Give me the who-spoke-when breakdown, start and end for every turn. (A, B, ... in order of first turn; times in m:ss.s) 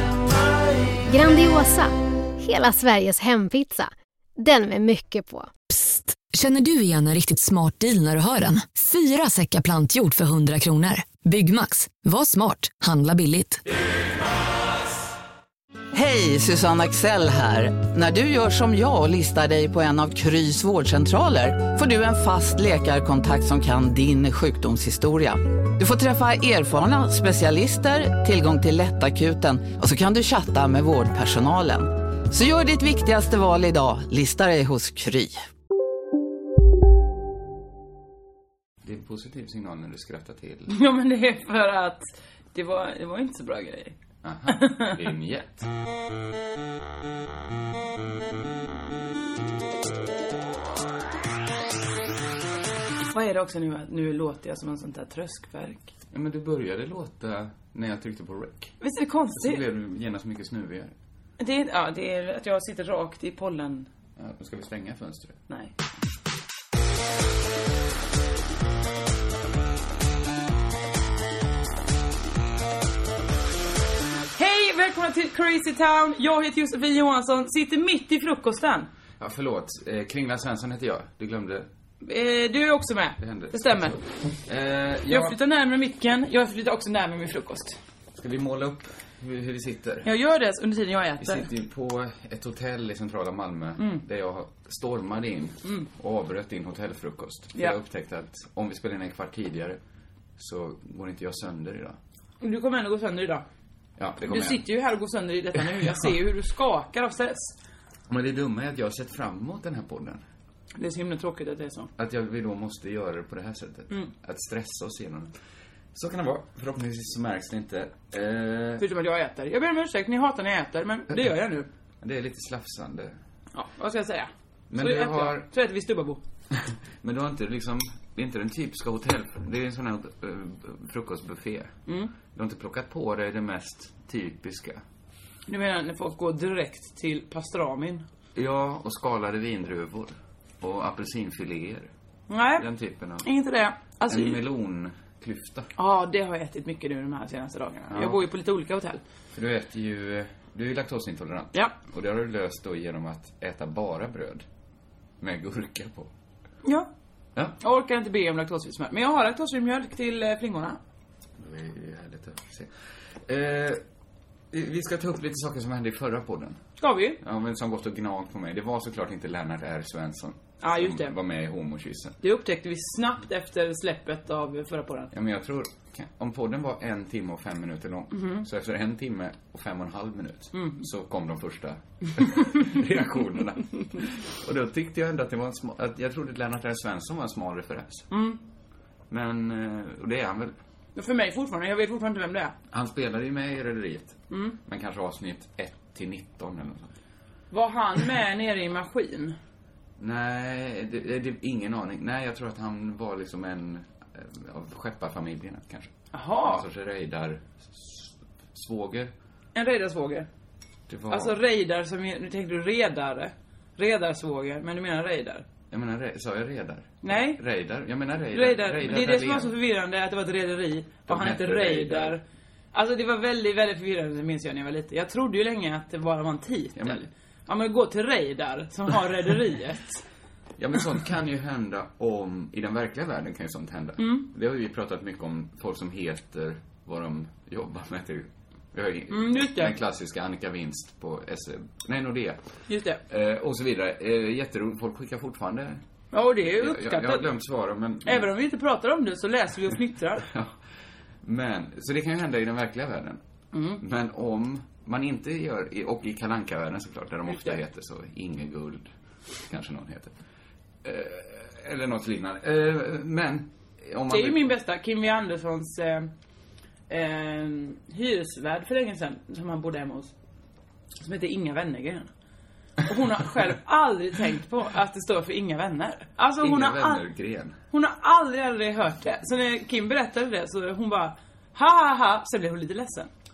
0:01.1-0:05.5 A
0:05.7-0:13.6 B
0:15.9-0:35.4 C
0:38.8-0:40.7 D
0:40.7-0:44.0 E
0:44.2-0:45.7 D
0:44.5-0:45.0 E
0:53.1-0:55.9 E
0:56.1-0:58.8 D
0:58.8-0:59.6 E
0:59.4-1:00.9 D
1:01.4-1:03.9 E
1:04.2-1:05.4 D
1:14.4-1:18.9 E
1:19.2-1:21.7 D
1:22.0-1:24.0 E
1:23.2-1:25.4 D
1:25.1-1:27.8 E
1:28.2-1:30.1 D
1:30.0-1:31.5 E
1:31.2-1:39.8 D
1:40.4-1:42.0 D
1:42.4-1:43.4 E
1:44.0-1:44.6 D
1:44.2-1:47.5 E
1:48.1-1:50.2 D
1:50.8-1:51.9 E
1:52.0-1:55.3 D
1:55.9-1:58.9 D
1:58.8-2:01.7 E
2:02.0-2:03.2 D
2:03.5-2:06.2 E
2:04.7-2:05.5 D
2:06.5-2:11.7 D
2:11.9-2:12.1 E
2:12.3-2:14.8 D
2:15.5-2:18.0 E
2:18.3-2:21.9 D
2:22.3-2:22.7 E
2:22.6-2:23.3 D
2:23.2-2:24.4 E
2:24.1-2:25.7 D
2:25.8-2:29.0 E
2:27.9-2:28.2 D
2:29.3-2:34.4 D
2:35.2-2:36.1 D
2:36.6-2:36.9 E
2:37.6-2:40.8 E
2:41.4-2:42.7 D
2:43.2-2:43.8 D
2:44.5-2:46.6 D
2:46.8-2:47.2 E
2:47.2-2:52.2 D
2:50.6-2:51.2 E
2:52.2-2:55.1 E
2:55.1-3:08.1 D
3:00.5-3:00.8 E
3:08.1-3:08.4 E
3:09.1-3:10.6 D
3:11.0-3:12.5 E
3:12.7-3:16.9 D
3:14.3-3:14.6 E
3:17.5-3:19.4 E
3:20.0-3:29.1 D
3:26.1-3:26.6 E
3:29.6-3:30.3 E
3:30.9-3:31.4 D
3:31.1-3:35.4 E
3:35.7-3:39.5 D
3:37.0-3:37.4 E
3:38.3-3:42.2 E
3:41.1-3:42.2 D
3:42.7-3:50.0 E
3:46.8-3:47.1 D
3:50.6-4:02.4 D
3:54.0-3:54.3 E
3:59.1-3:59.7 E
4:02.7-4:03.0 E
4:03.1-4:05.8 D
4:06.1-4:07.2 E
4:06.4-4:08.3 D
4:08.0-4:10.3 E
4:10.2-4:10.6 D
4:11.2-4:13.2 D
4:13.5-4:13.8 E
4:13.8-4:18.9 D
4:19.4-4:20.1 D
4:20.8-4:24.5 D
4:24.1-4:26.1 E
4:26.9-4:30.1 E
4:31.0-4:32.1 E
4:32.8-4:37.0 E
4:36.4-4:37.6 D
4:37.7-4:43.1 E